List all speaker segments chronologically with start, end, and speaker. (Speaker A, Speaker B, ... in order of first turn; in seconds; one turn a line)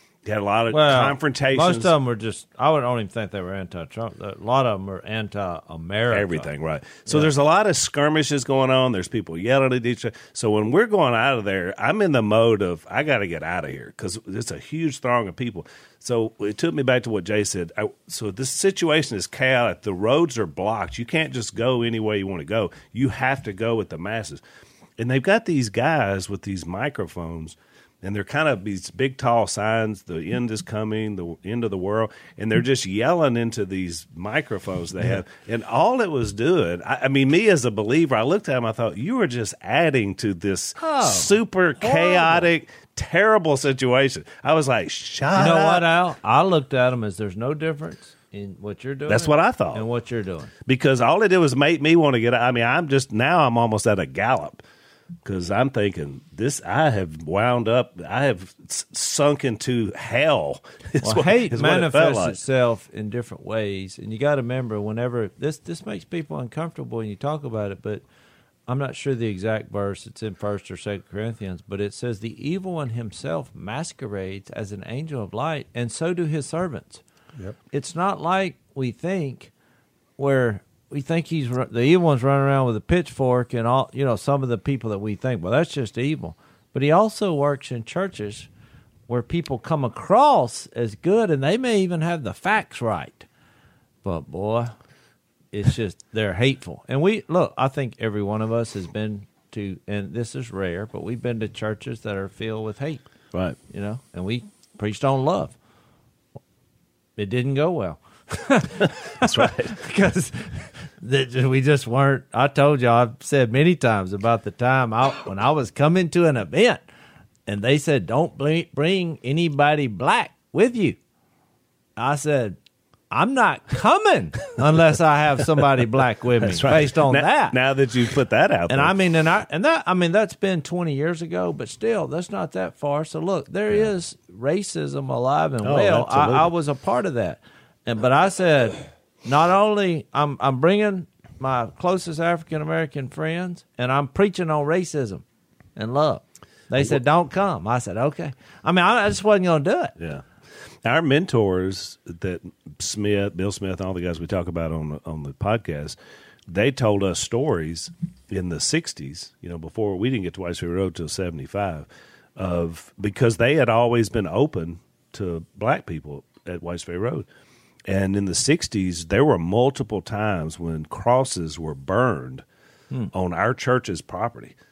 Speaker A: 0.2-1.9
Speaker B: 0.7-6.5
Speaker A: 6.1-24.4
Speaker A: 25.0-45.9
Speaker B: 40.8-42.5
Speaker B: 45.3-50.5
Speaker A: 49.1-49.8
Speaker A: 50.6-54.6
Speaker A: 55.2-62.4
Speaker B: 61.0-68.0
Speaker B: 68.7-77.0
Speaker B: 77.7-79.5
Speaker B: 80.2-88.5
Speaker B: 89.1-93.3
Speaker B: 94.0-94.7
Speaker B: 95.5-103.0
Speaker B: 103.7-105.5
Speaker B: 107.2-116.8
Speaker A: 109.2-109.7
Speaker B: 117.5-121.0
Speaker B: 122.0-122.6
Speaker B: 123.1-127.5
Speaker A: 126.4-128.9
Speaker B: 128.7-145.2
Speaker A: 135.6-136.5
Speaker B: 145.8-149.9
Speaker A: 150.0-150.2
Speaker A: 150.8-156.0
Speaker A: 156.5-167.2
Speaker A: 167.9-172.4
Speaker A: 173.1-174.5